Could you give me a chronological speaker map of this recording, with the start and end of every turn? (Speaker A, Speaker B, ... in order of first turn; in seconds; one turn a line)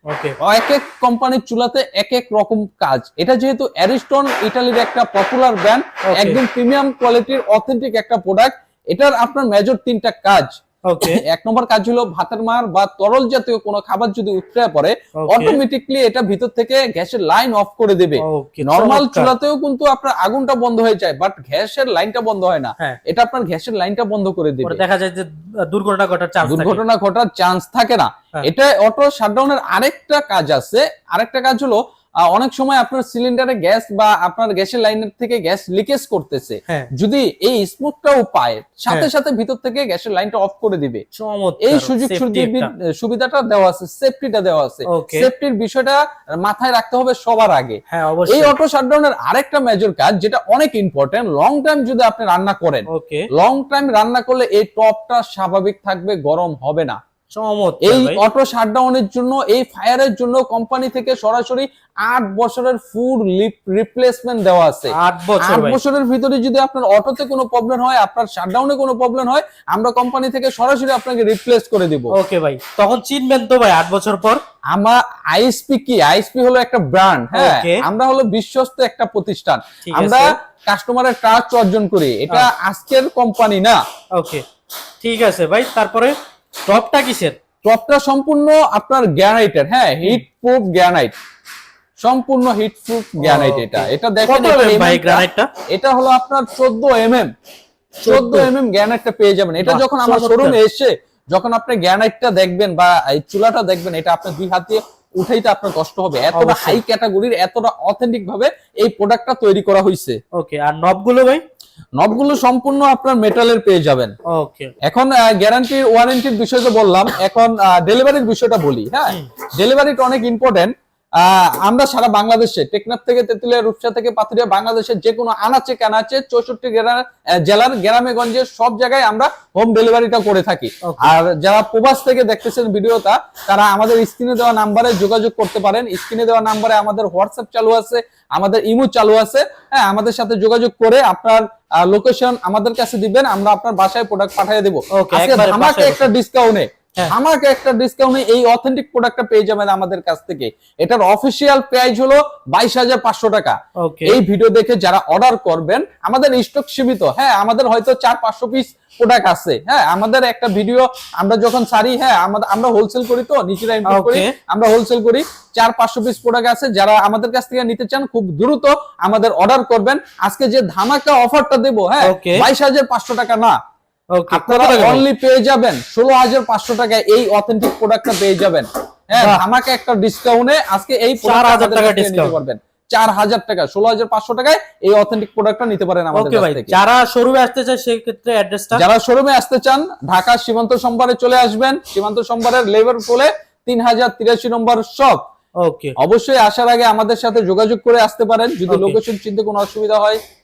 Speaker A: 0.1-0.3
Speaker B: 0.4-24.8
Speaker A: 6.1-6.4
Speaker A: 10.8-11.2
Speaker A: 15.2-15.6
Speaker A: 18.2-19.3
Speaker A: 24.6-26.8
Speaker B: 26.5-41.0
Speaker A: 41.1-42.7
Speaker B: 41.6-57.0
Speaker A: 44.9-45.3
Speaker A: 47.9-48.6
Speaker A: 52.9-53.2
Speaker A: 57.3-58.2
Speaker B: 57.8-72.1
Speaker A: 64.9-65.8
Speaker A: 72.1-74.4
Speaker B: 74.7-83.8
Speaker A: 77.3-77.8
Speaker A: 79.8-80.3
Speaker A: 84.2-84.4
Speaker A: 85.0-86.1
Speaker A: 86.7-87.4
Speaker B: 87.6-91.1
Speaker B: 92.0-97.3
Speaker A: 93.2-95.5
Speaker A: 98.0-98.5
Speaker B: 98.0-110.2
Speaker A: 99.6-100.6
Speaker A: 106.3-106.8
Speaker A: 110.3-111.4
Speaker B: 112.0-114.1
Speaker A: 114.3-114.7
Speaker B: 114.8-173.6
Speaker A: 130.8-131.2
Speaker A: 144.9-146.1
Speaker A: 153.8-154.2
Speaker A: 163.8-164.3
Speaker A: 172.0-172.5
Speaker A: 174.2-175.0
Speaker B: 174.3-186.8
Speaker A: 179.2-179.4
Speaker A: 181.2-182.4
Speaker A: 186.1-188.8
Speaker B: 188.7-195.2
Speaker A: 195.6-195.9
Speaker B: 196.0-200.2
Speaker A: 198.7-199.0